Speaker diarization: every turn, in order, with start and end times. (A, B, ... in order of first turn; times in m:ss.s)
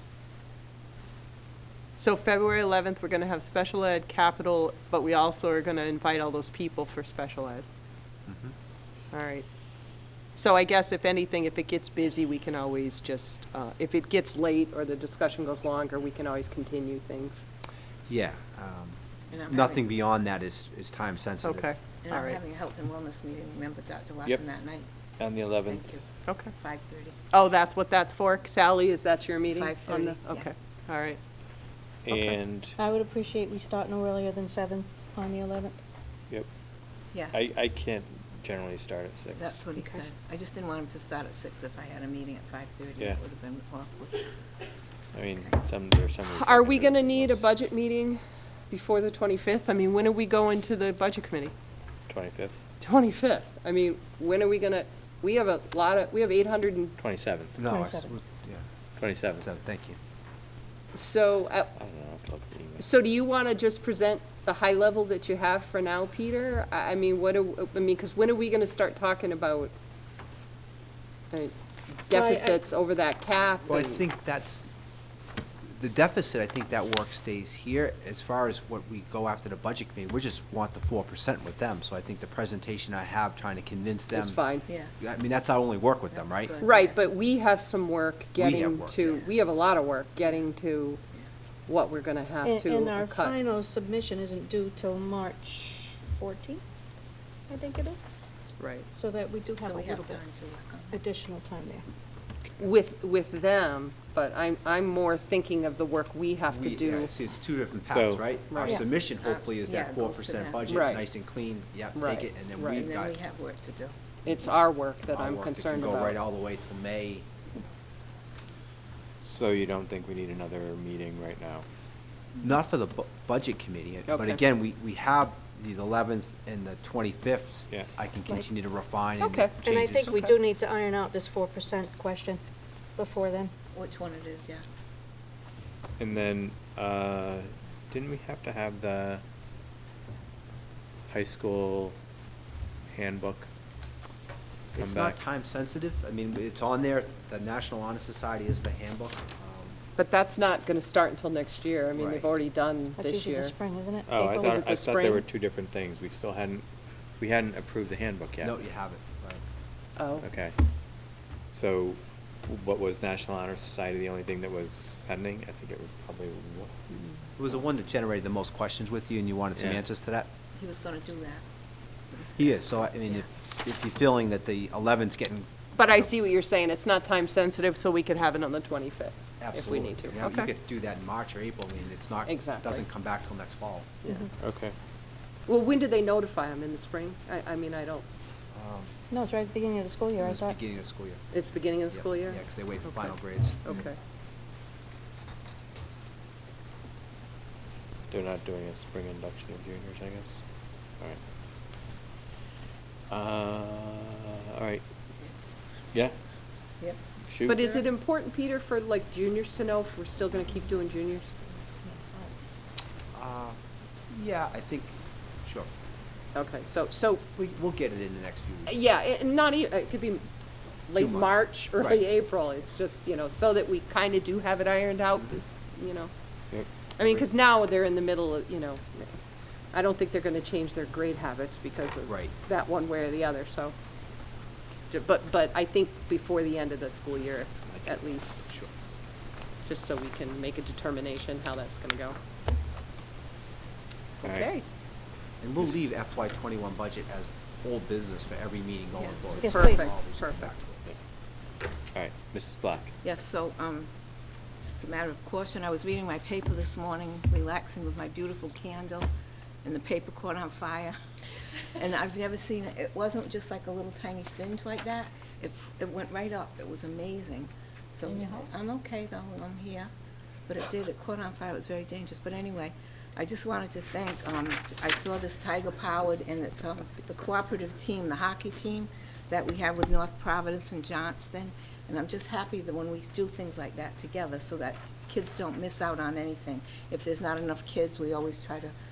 0:02.0-0:07.6 A
0:08.3-0:08.5 B
0:09.1-0:09.4 A
0:10.3-0:17.4 A
0:18.1-0:21.7 B
0:19.3-0:19.8 C
0:21.4-0:22.4 A
0:22.0-0:24.9 C
0:25.2-0:25.9 D
0:25.6-0:27.2 C
0:27.3-0:31.2 A
0:29.5-0:30.5 C
0:32.0-0:32.8 D
0:32.8-0:35.8 E
0:37.3-0:39.6 D
0:39.3-0:44.3 C
0:45.1-0:47.5 D
0:46.3-0:51.5 A
0:52.1-0:52.6 D
0:52.8-0:56.9 A
0:57.0-0:57.6 D
0:57.6-0:58.6 B
0:57.6-0:58.1 E
0:59.0-0:59.4 D
0:59.4-1:00.0 B
1:00.9-1:01.7 A
1:01.8-1:02.9 D
1:02.8-1:09.7 A
1:11.3-1:14.0 A
1:12.1-1:12.6 E
1:13.7-1:14.7 B
1:15.6-1:24.4 B
1:24.1-1:24.7 A
1:25.0-1:26.5 B
1:26.1-1:27.1 C
1:26.6-1:31.0 A
1:28.4-1:29.0 B
1:31.7-1:33.3 A
1:32.4-1:36.6 E
1:37.5-1:38.0 E
1:38.6-1:38.9 A
1:38.9-1:40.2 E
1:39.5-1:41.0 C
1:40.9-1:41.8 E
1:42.6-1:47.1 A
1:46.5-1:53.2 B
1:47.8-1:48.2 D
1:48.5-1:48.8 A
1:49.1-1:51.0 C
1:50.7-1:51.0 A
1:51.9-1:52.8 A
1:52.7-1:54.0 C
1:54.2-1:56.2 A
1:55.1-1:57.3 B
1:59.2-2:01.6 D
2:02.4-2:10.3 B
2:04.1-2:04.4 A
2:09.2-2:09.5 A
2:09.6-2:12.4 E
2:13.0-2:13.5 E
2:13.7-2:14.6 C
2:16.0-2:19.2 D
2:21.1-2:21.9 D
2:22.9-2:23.5 D
2:24.7-2:29.8 B
2:24.7-2:25.2 D
2:30.0-2:33.6 A
2:32.0-2:32.3 B
2:33.0-2:34.6 E
2:34.1-2:36.6 D
2:34.2-2:35.2 A
2:37.2-2:38.5 D
2:38.4-2:39.4 B
2:40.0-2:40.2 A
2:40.2-2:40.5 D
2:41.5-2:46.9 D
2:47.4-2:50.3 B
2:49.6-2:49.8 D
2:50.5-2:51.4 C
2:52.1-2:53.3 C
2:52.4-2:56.1 B
2:55.8-3:00.5 A
2:59.4-3:03.9 B
3:02.2-3:02.8 A
3:04.4-3:04.8 D
3:05.5-3:08.0 A
3:08.5-3:08.9 B
3:09.1-3:10.6 E
3:10.2-3:11.2 B
3:11.3-3:14.0 A
3:11.9-3:13.7 B
3:18.1-3:20.4 D
3:23.1-3:24.8 D
3:26.8-3:27.8 C
3:27.2-3:27.6 D
3:27.4-3:31.5 A
3:33.1-3:35.7 B
3:36.3-3:37.2 A
3:37.4-3:38.8 B
3:38.7-3:40.2 A
3:40.9-3:46.1 A
3:40.9-3:42.0 B
3:47.0-3:49.2 A
3:49.7-3:53.7 A
3:52.1-3:52.3 B
3:54.9-3:58.4 A
3:57.7-3:58.7 B
3:59.6-4:02.2 A
4:04.2-4:04.6 A
4:04.2-4:04.5 D
4:05.4-4:10.8 B
4:09.0-4:09.4 C
4:09.4-4:09.9 E
4:09.5-4:10.5 A
4:11.9-4:12.9 D
4:13.0-4:13.9 C
4:14.7-4:19.1 C
4:19.6-4:20.9 C
4:21.7-4:29.9 C
4:30.5-4:48.7 C